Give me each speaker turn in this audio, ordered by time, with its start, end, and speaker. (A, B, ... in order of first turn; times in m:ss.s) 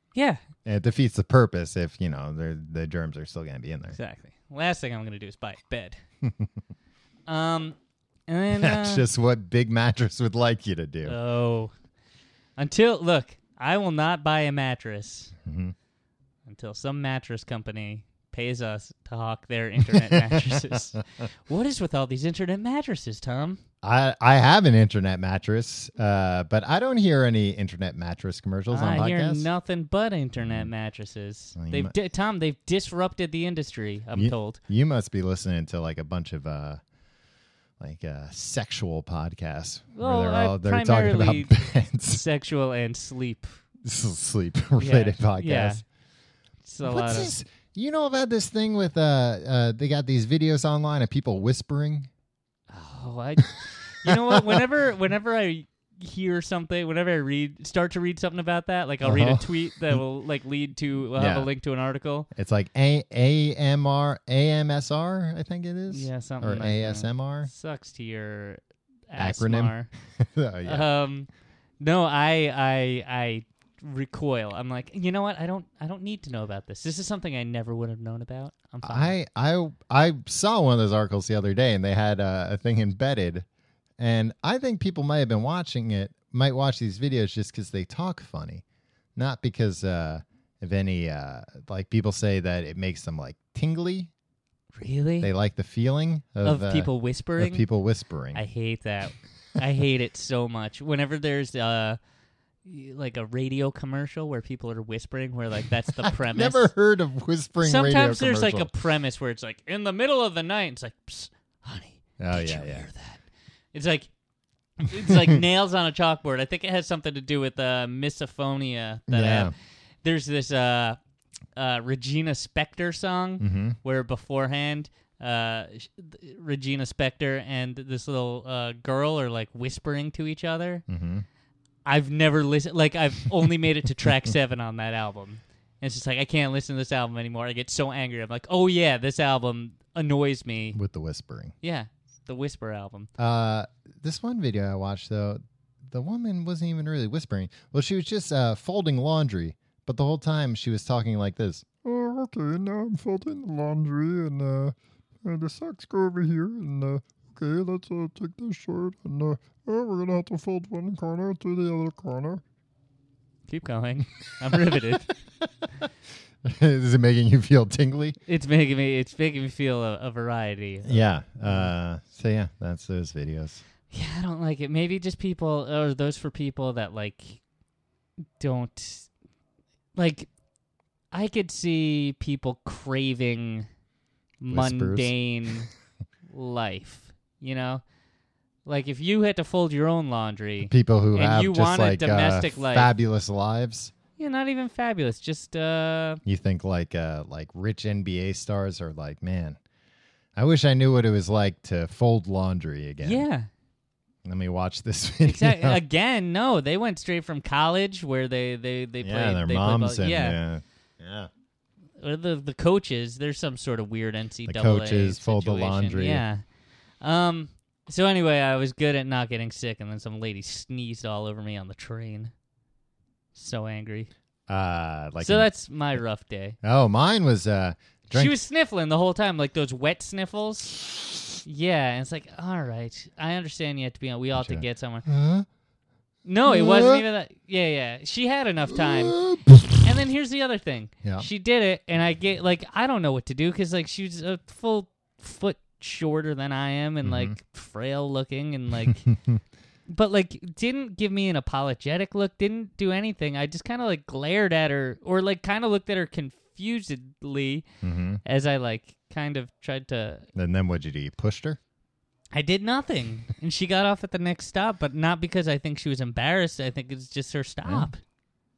0:00.6-0:04.0 A
0:03.9-0:06.0 B
0:06.2-0:06.5 A
0:07.3-0:07.8 B
0:08.3-0:09.0 B
0:08.6-0:11.2 A
0:11.0-0:11.7 B
0:12.6-0:15.3 B
0:15.4-0:15.7 A
0:16.5-0:23.6 B
0:19.8-0:20.8 A
0:23.8-0:29.5 A
0:28.7-0:34.6 B
0:30.4-0:30.7 A
0:31.6-0:31.9 A
0:34.2-0:36.8 A
0:37.8-0:42.2 A
0:40.0-0:41.6 B
0:42.1-0:43.5 B
0:43.8-0:45.8 A
0:44.8-0:45.8 B
0:46.6-0:47.3 B
0:46.8-0:52.1 A
0:52.7-1:02.3 B
0:54.0-0:54.7 A
0:59.0-1:00.0 A
1:01.2-1:01.5 A
1:02.3-1:07.5 A
1:05.9-1:09.9 B
1:09.2-1:10.9 A
1:10.6-1:11.3 B
1:11.8-1:19.2 B
1:18.8-1:23.4 A
1:24.0-1:28.6 A
1:29.2-1:34.1 A
1:34.8-1:35.3 B
1:35.2-1:38.4 A
1:36.4-1:37.6 B
1:38.4-1:42.0 B
1:42.6-1:46.7 B
1:46.0-1:48.7 A
1:47.6-1:53.2 B
1:52.2-1:52.9 A
1:53.7-1:54.1 B
1:54.8-1:59.5 B
1:55.1-1:55.4 A
1:59.1-1:59.5 A
2:00.0-2:01.0 B
2:01.6-2:10.8 B
2:03.4-2:03.8 A
2:10.9-2:11.2 A
2:11.9-2:20.8 B
2:20.8-2:21.6 A
2:21.6-2:23.1 B
2:23.2-2:42.4 A
2:43.5-2:45.1 B
2:44.5-2:45.0 A
2:46.4-2:48.2 A
2:48.3-2:51.7 B
2:50.8-2:53.6 A
2:53.9-2:57.4 B
2:58.4-2:59.1 B
3:00.0-3:00.3 B
3:01.1-3:03.7 B
3:04.4-3:05.7 B
3:04.5-3:05.1 A
3:06.3-3:07.8 B
3:08.7-3:12.9 B
3:10.7-3:13.9 A
3:14.2-3:16.2 B
3:16.2-3:19.6 A
3:20.4-3:23.3 A
3:23.0-3:23.5 B
3:24.2-3:25.8 A
3:25.2-3:30.4 B
3:29.0-3:31.3 A
3:32.0-3:36.4 B
3:34.5-3:36.2 A
3:37.0-3:42.3 B
3:43.4-3:44.1 B
3:44.5-3:45.5 A
3:45.2-3:46.6 B
3:46.6-3:48.3 A
3:48.1-3:50.8 B
3:51.4-3:55.1 B
3:54.4-3:55.5 A
3:56.2-3:59.2 B
3:56.4-3:57.0 A
3:58.7-3:59.9 A
3:59.8-4:09.1 B
4:07.0-4:07.4 A
4:08.9-4:09.4 A
4:09.9-4:17.6 B
4:17.8-4:18.2 A
4:18.2-4:20.2 B
4:20.4-4:21.6 A
4:22.3-4:28.0 B
4:27.6-4:27.9 A